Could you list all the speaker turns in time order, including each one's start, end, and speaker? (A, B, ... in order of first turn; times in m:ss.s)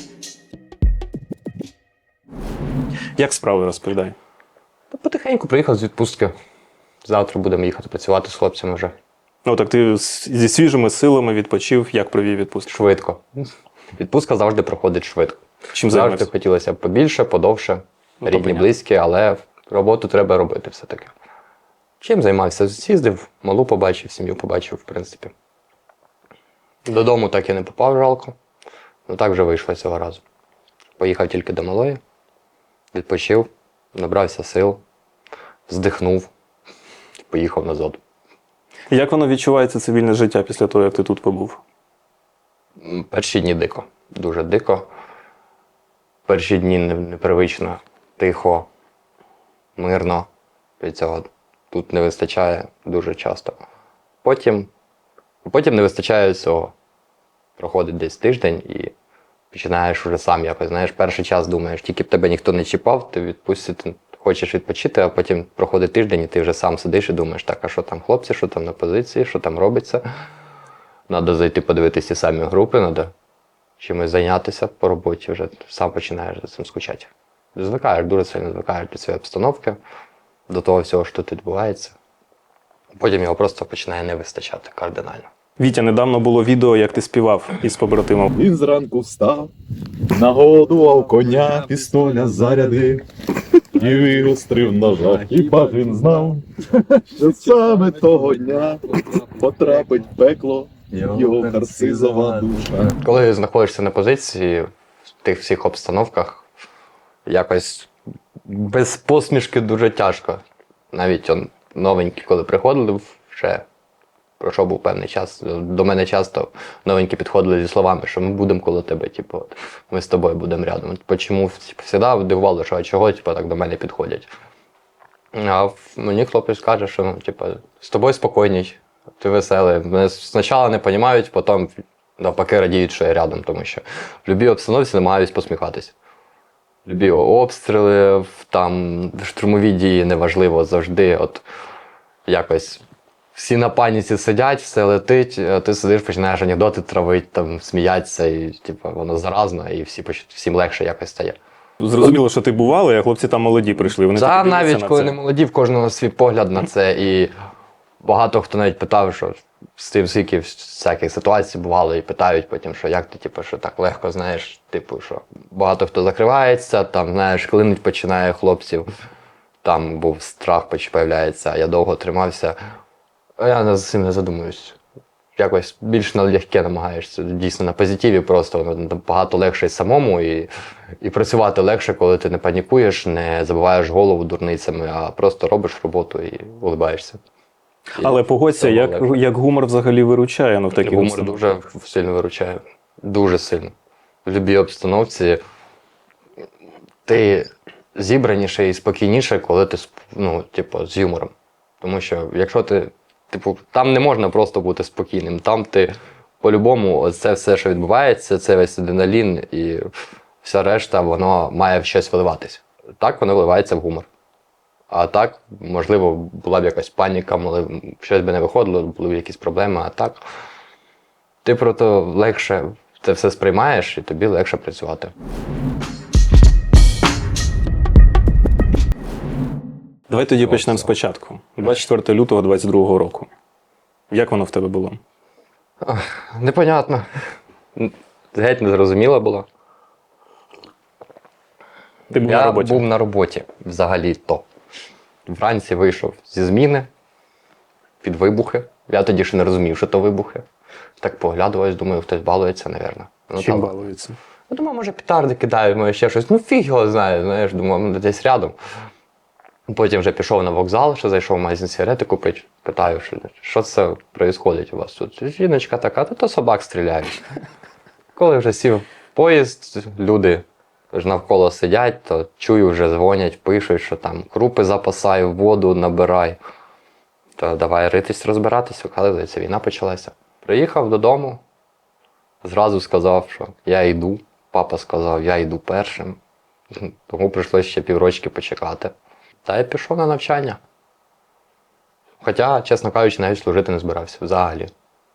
0:03.2-0:04.1 A
0:04.9-0:06.3 B
0:07.0-0:08.9 B
0:09.4-0:12.9 A
0:12.7-0:13.2 B
0:14.0-0:21.1 B
0:15.7-0:16.2 A
0:18.2-0:18.6 A
0:22.0-0:25.3 B
0:26.9-0:28.4 B
0:29.1-0:30.2 B
0:31.0-0:32.0 B
0:32.9-0:34.8 B
0:35.7-0:36.3 B
0:37.3-0:38.0 B
0:38.9-0:41.6 A
0:42.8-0:44.9 B
0:46.3-0:48.7 B
0:49.8-0:50.3 B
0:50.8-0:53.6 B
0:54.2-0:54.7 B
0:55.4-0:56.7 B
0:57.6-0:58.9 B
0:59.5-1:10.0 B
1:11.1-1:13.1 B
1:13.8-1:19.8 B
1:20.5-1:21.9 B
1:23.0-1:25.3 B
1:25.6-1:28.3 A
1:28.3-1:29.5 C
1:30.1-1:33.0 C
1:33.7-1:43.0 C
1:43.0-1:44.7 B
1:45.2-1:46.4 B
1:47.3-1:47.9 B
1:48.4-1:53.6 B
1:54.4-2:04.3 B
2:05.3-2:15.9 B
2:16.8-2:21.4 B
2:22.3-2:22.8 B
2:23.3-2:31.4 B
2:31.8-2:35.2 A
2:34.1-2:37.3 B
2:38.0-2:48.8 B
2:49.6-2:52.5 B
2:53.4-2:54.8 B
2:55.4-3:00.5 B
3:01.0-3:07.2 B
3:08.0-3:09.1 B
3:08.0-3:11.4 A
3:10.8-3:13.7 B
3:14.2-3:15.4 B
3:17.0-3:29.8 B
3:30.4-3:34.1 B
3:34.9-3:40.2 B
3:41.4-3:45.1 B
3:50.1-3:53.3 A
3:50.6-3:50.9 B
3:54.1-3:55.0 A
3:55.8-3:57.1 B
3:57.8-3:59.4 B
4:02.1-4:04.4 B
4:02.1-4:02.8 A
4:05.3-4:06.9 B
4:08.0-4:10.4 B
4:11.0-4:13.7 B
4:13.4-4:14.2 A
4:14.5-4:18.5 B
4:19.7-4:27.2 B
4:28.2-4:36.4 B
4:37.4-4:41.4 B
4:42.4-4:46.2 B
4:46.8-4:48.9 B
4:49.4-4:50.6 B
4:52.2-4:54.7 B